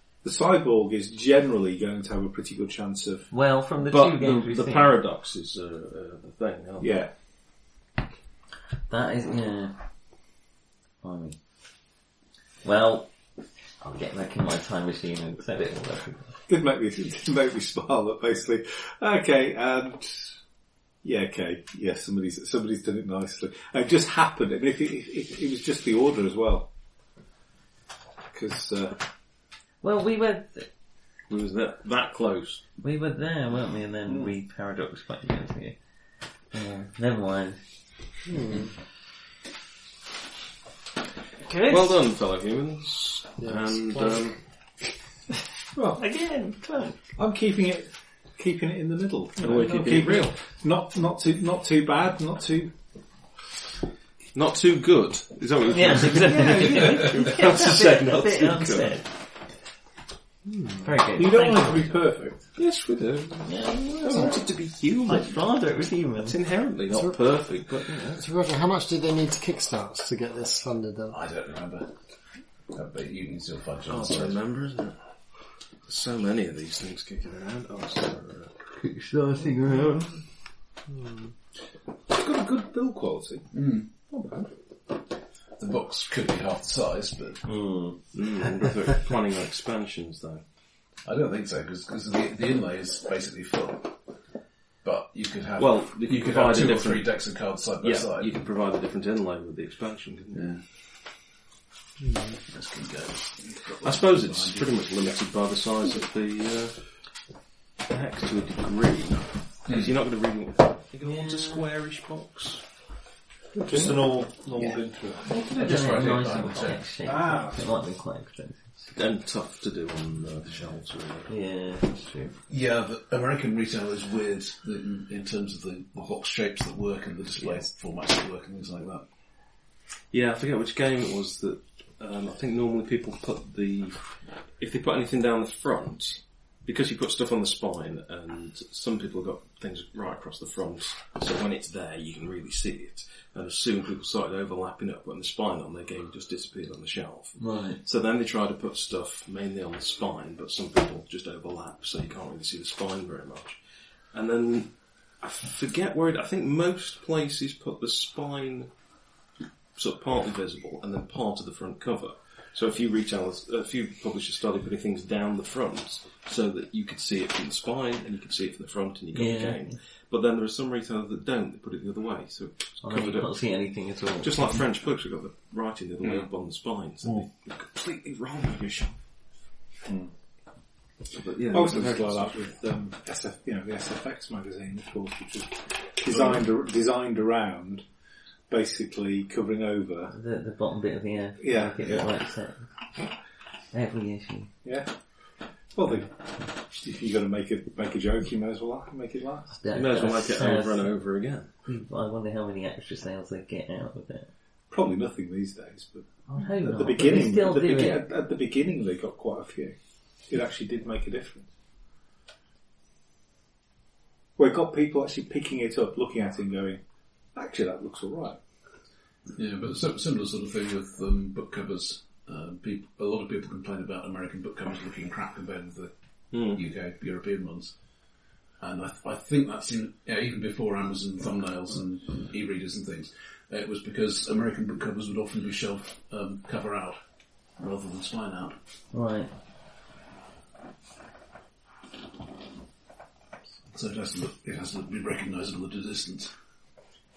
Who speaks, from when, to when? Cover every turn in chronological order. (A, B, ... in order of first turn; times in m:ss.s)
0:00.2-0:03.3 A
0:03.3-0:05.0 B
0:03.8-0:06.9 C
0:06.8-0:07.1 A
0:08.9-0:09.8 B
0:11.0-0:11.4 B
0:12.6-0:13.1 B
0:13.8-0:16.4 B
0:16.5-0:20.4 A
0:21.0-0:26.7 A
0:28.3-0:29.0 A
0:29.8-0:30.7 B
0:31.3-0:32.6 C
0:32.8-0:35.8 B
0:34.1-0:34.3 A
0:36.5-0:37.6 B
0:38.3-0:38.6 D
0:41.4-0:42.0 B
0:41.6-0:44.4 C
0:43.4-0:44.3 D
0:45.8-0:46.0 A
0:45.9-0:47.0 B
0:47.2-0:52.7 A
0:49.4-0:50.3 C
0:54.3-0:59.0 C
0:55.7-0:59.1 B
1:00.5-1:00.8 D
1:00.8-1:02.1 B
1:01.1-1:02.4 A
1:02.5-1:05.4 C
1:03.4-1:04.5 B
1:05.0-1:06.4 B
1:06.2-1:08.2 C
1:06.9-1:07.2 D
1:08.1-1:11.2 D
1:11.1-1:11.9 E
1:12.7-1:14.4 E
1:13.9-1:14.9 C
1:15.8-1:18.7 C
1:18.7-1:20.2 B
1:22.1-1:23.5 A
1:23.5-1:23.9 E
1:24.1-1:24.4 A
1:25.6-1:27.5 E
1:27.4-1:28.0 B
1:28.1-1:30.4 C
1:31.0-1:33.9 E
1:34.8-1:38.4 E
1:35.6-1:37.2 C
1:37.8-1:40.5 C
1:40.3-1:40.6 E
1:42.5-1:44.8 E
1:43.8-1:46.9 C
1:47.8-1:52.6 C
1:51.0-1:51.6 B
1:53.6-1:54.1 B
1:53.6-1:55.4 A
1:55.3-1:58.8 B
1:55.5-1:56.8 E
1:57.0-1:57.7 A
1:58.9-2:01.3 C
2:01.3-2:02.3 B
2:02.5-2:09.0 E
2:10.1-2:14.0 C
2:14.6-2:38.7 C
2:27.4-2:27.8 B
2:39.8-2:53.4 C
2:49.1-2:49.8 B
2:52.8-2:54.5 B
2:54.2-2:59.0 C
3:01.1-3:02.5 C
3:01.5-3:07.8 A
3:06.1-3:06.4 E
3:08.5-3:10.1 A
3:10.1-3:12.6 B
3:11.4-3:12.0 A
3:13.7-3:14.5 B
3:15.7-3:16.1 A
3:16.6-3:19.5 A
3:19.6-3:20.9 B
3:19.7-3:21.5 C
3:21.6-3:24.3 B
3:24.7-3:29.7 A
3:26.3-3:28.0 B
3:30.3-3:31.5 A
3:34.4-3:36.8 A
3:37.3-3:38.4 A
3:39.3-3:48.0 E
3:46.3-3:46.6 C
3:48.6-3:57.0 E
3:57.6-3:58.6 E
3:58.9-3:59.3 B
4:03.7-4:06.3 E